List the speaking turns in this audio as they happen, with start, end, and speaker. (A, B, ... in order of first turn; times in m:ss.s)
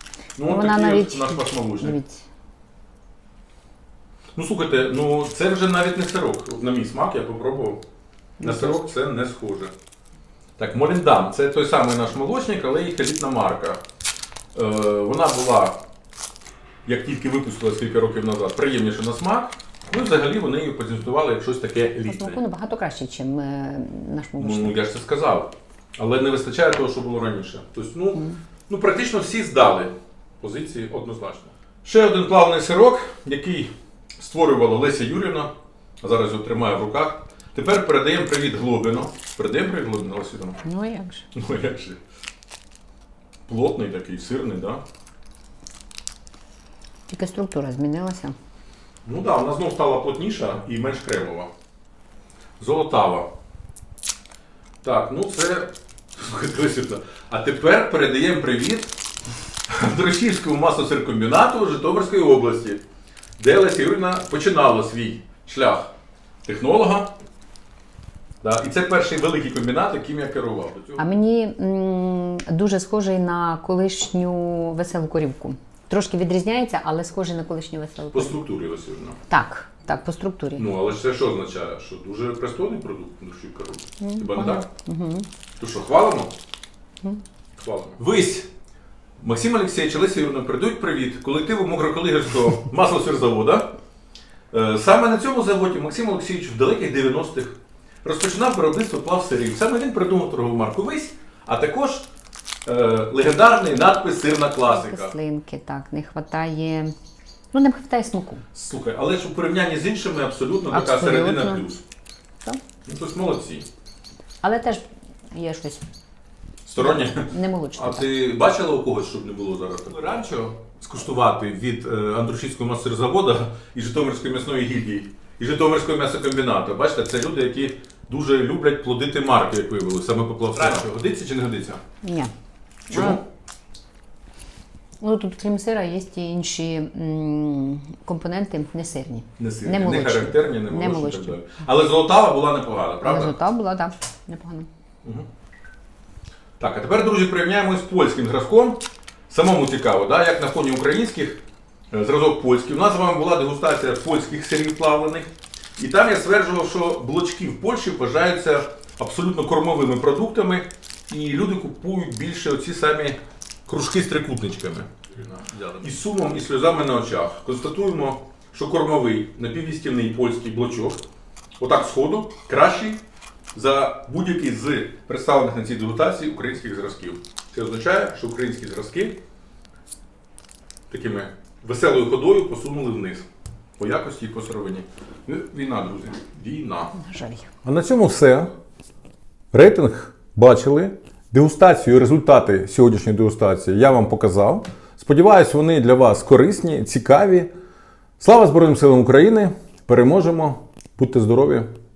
0:00.4-0:02.0 A
0:00.4-0:02.2 B
0:04.4-0:07.8 A
0:08.4-0:08.8 B
0:08.4-0:09.7 A
0:10.6-0:13.8 A
0:14.5-0:15.8 A
0:16.8-0:22.4 A
0:22.0-0:24.9 B
0:24.4-0:40.6 A
0:28.1-0:28.4 B
0:40.6-0:41.3 B
0:41.3-0:42.0 A
0:43.5-0:44.8 A
0:47.1-0:48.4 B
0:49.0-0:51.5 A
0:52.6-0:53.3 A
0:54.8-0:58.9 A
0:59.7-1:02.8 A
1:03.4-1:05.9 A
1:06.4-1:07.1 A
1:08.4-1:11.1 A
1:11.0-1:18.4 B
1:18.1-1:19.2 A
1:19.3-1:20.7 B
1:20.6-1:24.6 A
1:24.0-1:25.3 B
1:25.6-1:26.3 A
1:27.6-1:28.5 A
1:29.2-1:33.7 A
1:34.5-1:42.1 A
1:42.6-1:45.1 A
1:44.6-1:46.9 B
1:47.5-1:48.4 B
1:48.5-1:51.8 A
1:50.7-1:51.6 B
1:52.8-1:53.7 A
1:54.4-1:55.9 B
1:56.6-2:11.8 A
1:56.8-1:58.2 B
2:12.0-2:12.3 B
2:12.9-2:13.2 A
2:12.9-2:13.2 B
2:15.0-2:21.4 B
2:19.4-2:23.3 A
2:23.0-2:24.7 B
2:26.6-2:31.4 A
2:31.9-2:51.0 A
2:51.6-2:53.0 A
2:53.5-2:59.2 A
3:00.9-3:03.2 A
3:03.8-3:06.9 A
3:06.9-3:07.5 B
3:07.6-3:08.5 A
3:09.5-3:17.5 A
3:18.2-3:21.7 A